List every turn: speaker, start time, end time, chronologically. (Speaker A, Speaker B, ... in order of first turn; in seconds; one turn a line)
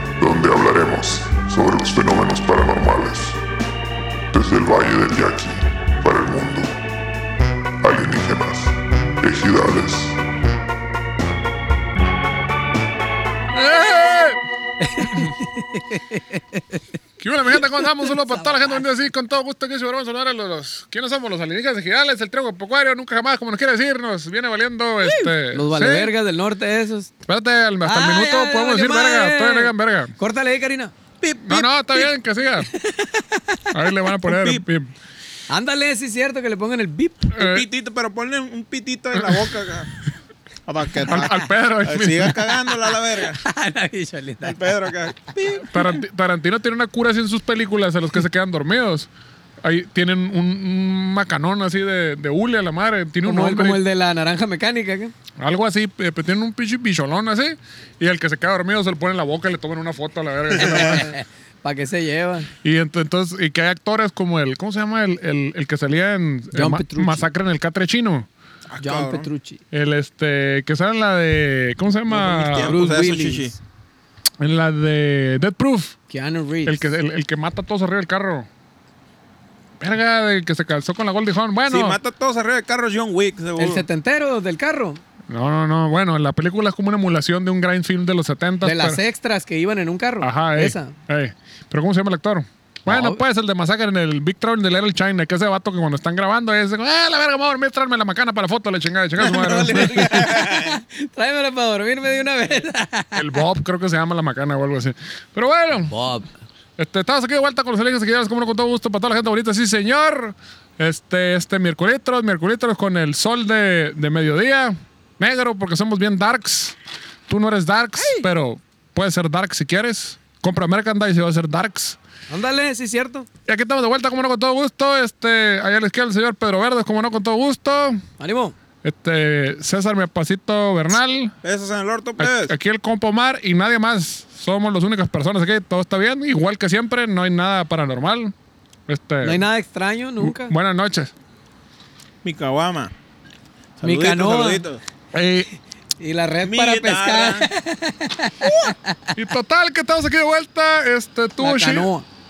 Speaker A: 0.2-3.4
Speaker A: 4.3-6.8
Speaker A: 7.8-10.2
Speaker B: 13.5-14.4
Speaker C: 14.8-16.8
Speaker B: 17.2-26.1
Speaker C: 17.6-18.8
Speaker C: 25.0-27.1
Speaker B: 27.3-30.1
Speaker C: 27.8-30.9
Speaker D: 31.2-31.7
Speaker B: 31.4-32.7
Speaker C: 32.7-33.6
Speaker B: 33.7-34.9
Speaker D: 34.3-34.6
Speaker C: 35.5-37.3
Speaker B: 37.3-37.7
Speaker D: 37.4-39.9
Speaker B: 39.2-39.5
Speaker D: 40.7-43.4
Speaker B: 41.0-42.4
Speaker C: 43.1-45.0
Speaker D: 44.4-45.7
Speaker B: 45.7-49.1
Speaker B: 49.6-53.8
Speaker C: 53.2-55.1
Speaker B: 55.4-61.1
Speaker D: 60.6-61.0
Speaker C: 60.6-62.5
Speaker B: 62.6-68.3
Speaker C: 66.5-67.3
Speaker D: 68.7-69.3
Speaker C: 68.8-69.6
Speaker B: 69.7-72.8
Speaker D: 72.1-73.6
Speaker C: 72.6-73.5
Speaker B: 74.4-76.0
Speaker C: 76.1-76.9
Speaker B: 76.7-78.5
Speaker B: 79.8-82.0
Speaker D: 81.7-83.8
Speaker C: 83.6-85.0
Speaker B: 85.3-89.0
Speaker C: 88.6-90.9
Speaker B: 90.2-100.1
Speaker C: 92.9-93.2
Speaker D: 99.2-100.8
Speaker C: 100.0-103.3
Speaker B: 103.1-105.9
Speaker C: 105.9-106.3
Speaker B: 106.8-116.8
Speaker B: 117.3-122.0
Speaker C: 118.0-118.2
Speaker C: 122.3-123.3
Speaker B: 123.5-128.0
Speaker C: 128.2-128.6
Speaker B: 128.8-131.3
Speaker D: 131.4-132.5
Speaker B: 132.2-138.3
Speaker B: 138.9-139.4
Speaker C: 139.2-140.5
Speaker B: 140.2-141.1
Speaker D: 142.2-142.9
Speaker D: 143.8-144.8
Speaker C: 143.8-144.7
Speaker B: 145.1-145.5
Speaker C: 146.0-149.0
Speaker D: 146.4-147.5
Speaker B: 149.1-151.9
Speaker C: 151.4-152.1